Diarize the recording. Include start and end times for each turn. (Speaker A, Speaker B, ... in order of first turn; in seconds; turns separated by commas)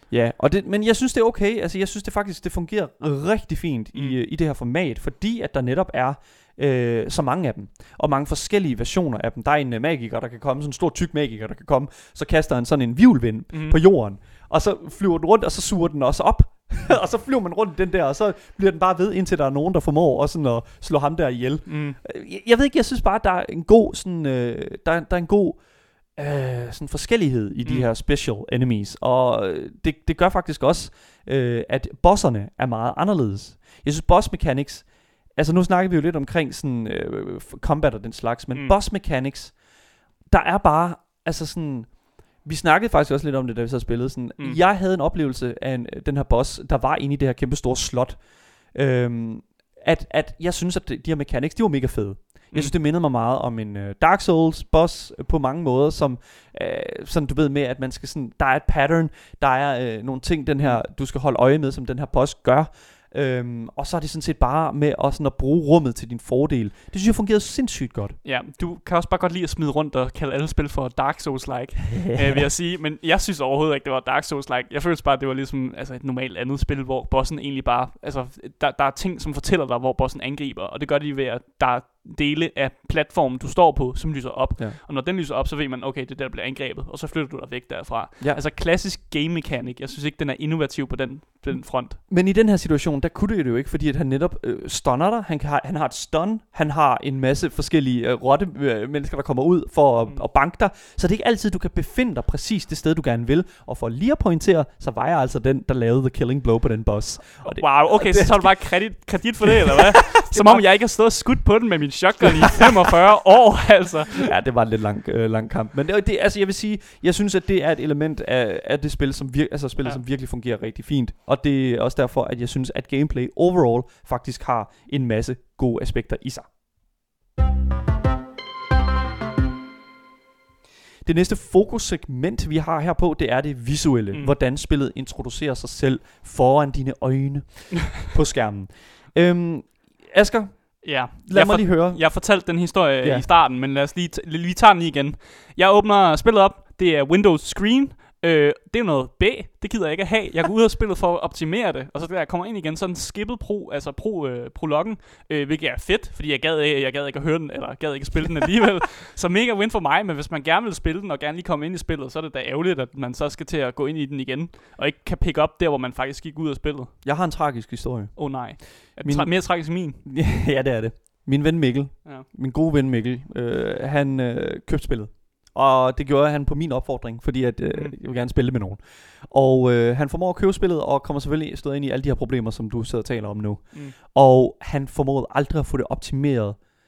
Speaker A: 0.1-39.6, Speaker B: 3.9-4.2, Speaker B: 13.5-13.8, Speaker B: 21.6-22.0, Speaker B: 27.6-27.9, Speaker A: 40.2-68.2, Speaker B: 52.5-52.8, Speaker B: 68.2-92.0, Speaker A: 71.9-72.4, Speaker A: 91.5-110.6, Speaker B: 107.4-114.2, Speaker A: 114.2-126.5, Speaker A: 131.0-143.3, Speaker B: 140.8-167.0, Speaker A: 167.0-186.6, Speaker B: 168.2-170.0, Speaker B: 177.7-177.9